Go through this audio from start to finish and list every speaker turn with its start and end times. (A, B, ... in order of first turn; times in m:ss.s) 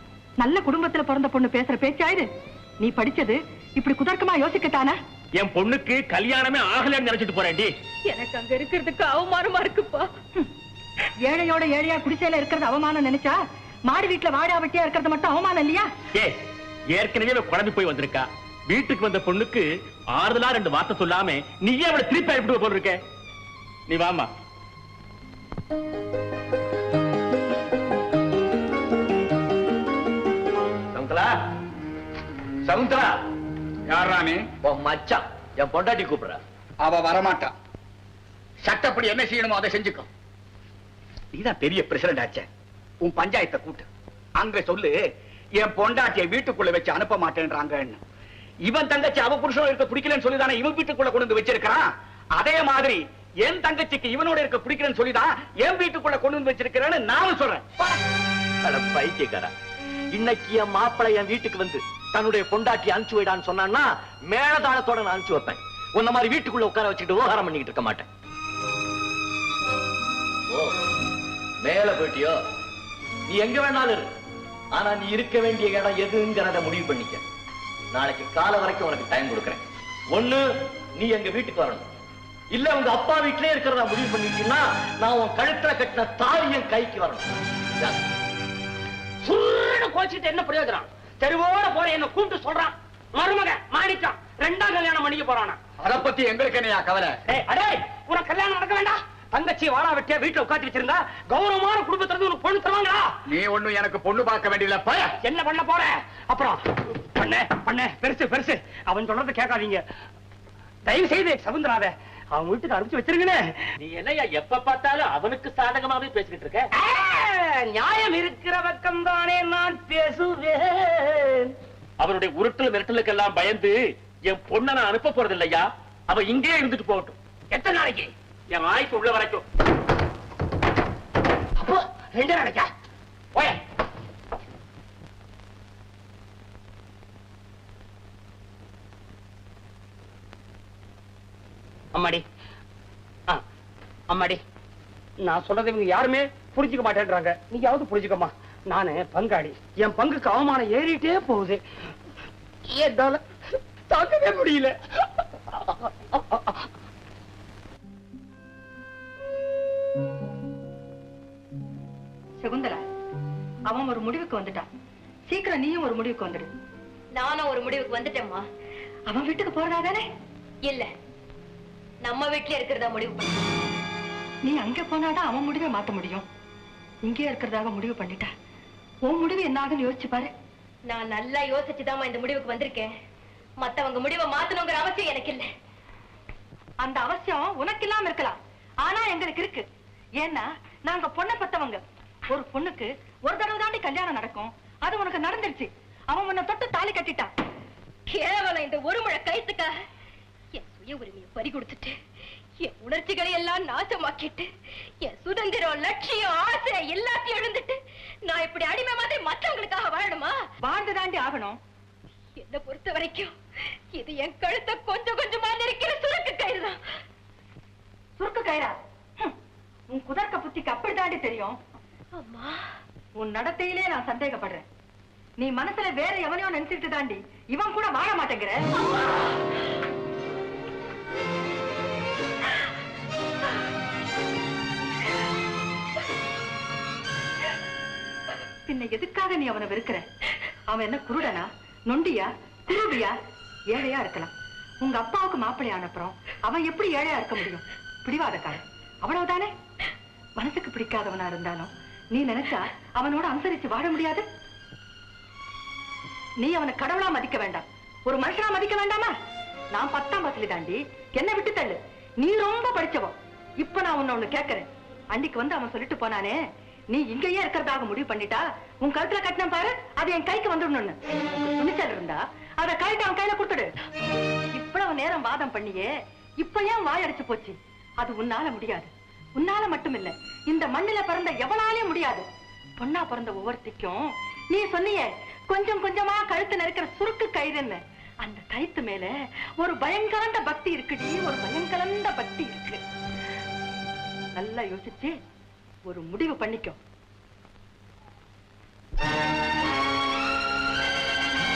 0:00.4-0:02.3 A
0:02.8-0:05.0 A
0:05.4-0:07.7 B
0:08.1-0:10.1 C
0:11.2-0:15.9 A
0:16.1-0:16.4 B
0:16.9-0:23.0 B
0:23.9-0:24.3 B
0:30.9-0:31.3 D
0:32.6-0:33.1 D
0:33.9-0:34.5 E
0:34.6-0:36.4 D
0:36.8-0:37.5 E
0:38.6-0:40.0 E
0:41.3-0:42.4 E
0:43.0-0:43.8 E
0:44.4-0:44.9 E
0:45.6-0:48.0 E
0:48.7-0:51.8 E
0:52.4-0:57.6 E
0:58.6-0:59.5 D
1:00.1-1:08.1 D
1:11.6-1:12.4 D
1:13.3-1:14.1 D
1:14.7-1:17.2 D
1:17.9-1:20.4 D
1:21.0-1:21.8 D
1:22.5-1:28.0 D
1:29.2-1:35.6 F
1:35.8-1:37.2 E
1:37.3-1:43.1 F
1:43.3-1:45.1 E
1:45.2-1:46.6 F
1:47.1-1:49.8 F
1:50.8-1:53.4 F
1:53.8-1:56.7 B
1:56.7-2:01.5 F
2:02.0-2:07.1 B
2:07.5-2:08.1 F
2:08.5-2:09.4 B
2:11.6-2:12.7 F
2:21.9-2:22.2 F
2:24.1-2:24.4 F
2:25.2-2:31.6 F
2:32.7-2:33.2 F
2:33.9-2:34.7 F
2:36.1-2:36.5 F
2:42.4-2:42.8 A
2:43.7-2:44.7 A
2:45.3-2:46.5 A
2:47.1-2:48.4 C
2:49.1-2:50.0 A
2:52.0-2:53.4 C
2:54.4-2:56.2 A
2:57.0-2:58.3 A
2:59.0-3:00.3 A
3:00.9-3:02.9 C
3:03.6-3:05.5 C
3:06.8-3:09.6 A
3:10.2-3:17.3 A
3:18.1-3:19.7 C
3:20.5-3:21.9 C
3:22.6-3:24.5 C
3:25.0-3:27.8 C
3:28.3-3:30.3 C
3:30.6-3:31.6 A
3:32.4-3:33.3 C
3:33.9-3:36.8 C
3:38.2-3:39.3 A
3:39.9-3:41.6 A
3:42.2-3:42.6 C
3:43.2-3:44.6 A
3:45.4-3:48.6 A
3:58.7-4:00.0 A
4:00.7-4:03.2 A
4:03.7-4:04.3 A
4:04.8-4:09.5 A
4:10.4-4:14.2 A
4:16.4-4:19.1 A
4:19.7-4:26.4 A
4:26.9-4:33.7 A
4:34.5-4:35.9 A
4:36.4-4:42.2 A
4:42.8-4:52.8 A
4:54.3-4:55.1 A
4:55.9-4:56.8 A